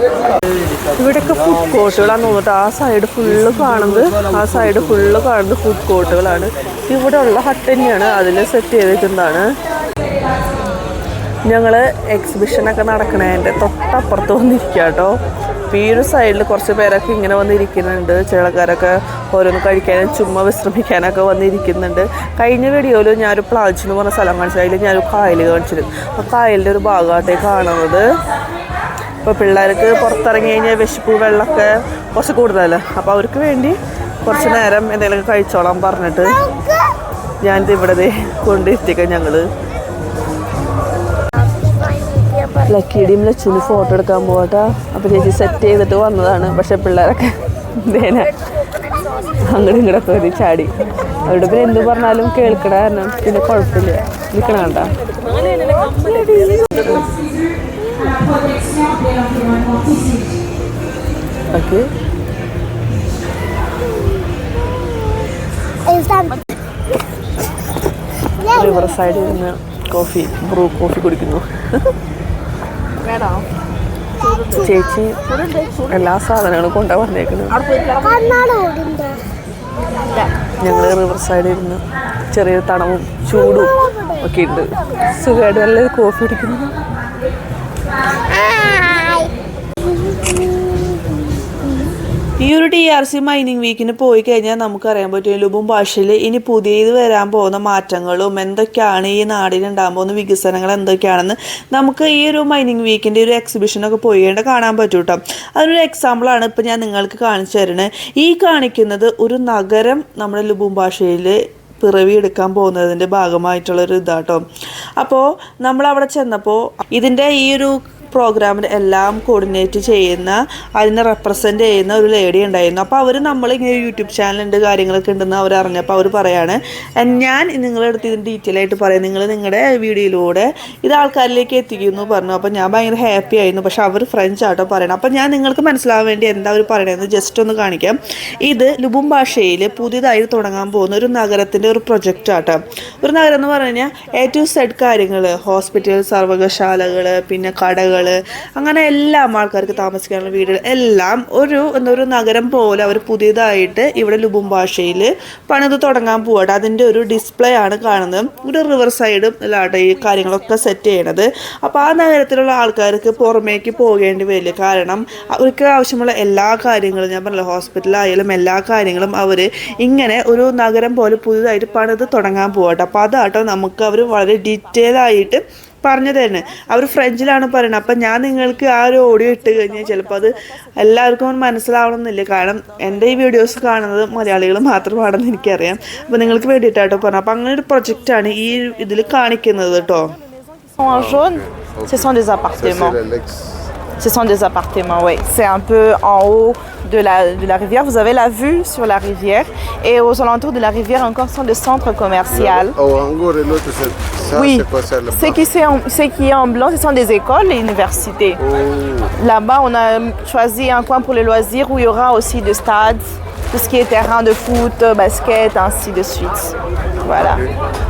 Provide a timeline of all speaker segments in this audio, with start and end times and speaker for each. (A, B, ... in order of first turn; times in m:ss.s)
0:01.0-0:09.4 A
0:11.5-0:15.1 A
0:15.7-0:28.0 A
0:29.2-0:36.4 A
0:37.4-0:39.5 A
0:42.6-0:48.3 A
0:49.5-0:50.7 A
0:51.2-0:54.9 A
0:56.6-0:57.1 A
0:58.5-0:59.7 B
1:01.5-1:01.9 A
1:05.9-1:06.3 B
1:08.4-1:11.4 A
1:13.0-1:13.4 B
1:14.2-1:14.7 B
1:14.5-1:15.2 A
1:15.3-1:16.0 B
1:15.9-1:17.6 A
1:17.5-1:19.2 B
1:20.6-1:26.8 A
1:28.9-1:29.2 B
1:32.4-1:54.4 A
1:55.0-3:10.1 A
3:10.8-3:13.0 B
3:13.0-3:13.4 C
3:14.0-3:22.8 B
3:22.8-3:25.2 C
3:24.2-3:28.4 B
3:29.2-3:37.4 B